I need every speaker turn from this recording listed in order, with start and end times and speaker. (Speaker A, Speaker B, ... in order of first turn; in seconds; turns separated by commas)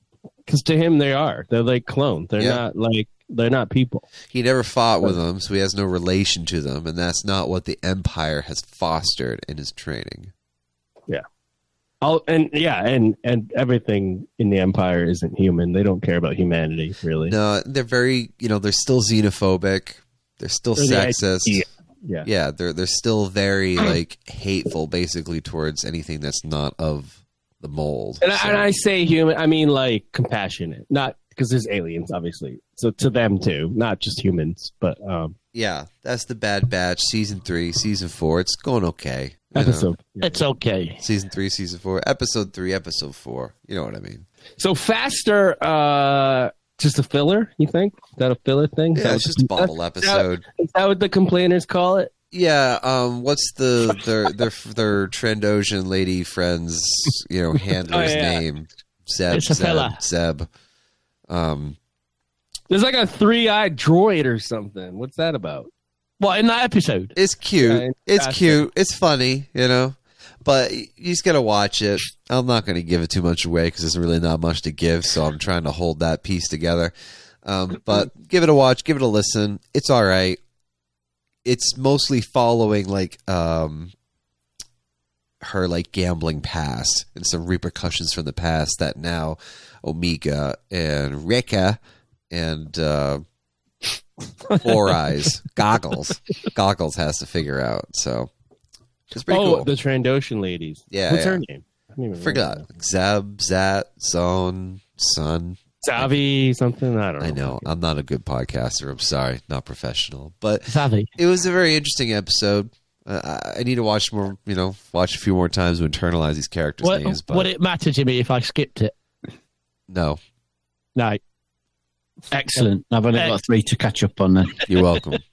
Speaker A: 0.5-4.1, Speaker B: 2.4-2.6, Speaker B: 4.3-10.3, Speaker A: 12.0-17.3, Speaker B: 17.3-21.6, Speaker A: 20.8-22.3, Speaker B: 22.2-28.7, Speaker A: 28.2-35.3, Speaker B: 35.5-39.9, Speaker A: 39.5-40.4, Speaker C: 40.2-41.0, Speaker B: 41.0-44.2, Speaker A: 44.6-52.1, Speaker B: 48.9-50.4, Speaker B: 52.3-60.5, Speaker A: 57.9-58.4, Speaker C: 59.3-60.0, Speaker B: 61.3-61.8, Speaker A: 62.7-65.7, Speaker C: 66.2-67.1, Speaker B: 67.2-76.9, Speaker A: 67.6-68.7, Speaker B: 77.4-80.4, Speaker B: 81.4-83.9, Speaker B: 85.4-91.8, Speaker B: 92.3-93.2, Speaker B: 94.6-98.3, Speaker B: 99.1-99.7, Speaker A: 99.3-102.6, Speaker B: 100.9-101.4, Speaker B: 102.2-106.1, Speaker A: 105.8-107.7, Speaker B: 107.2-117.5, Speaker C: 110.7-111.1, Speaker C: 116.8-118.9, Speaker B: 119.9-120.2, Speaker D: 122.3-124.6, Speaker B: 124.7-125.2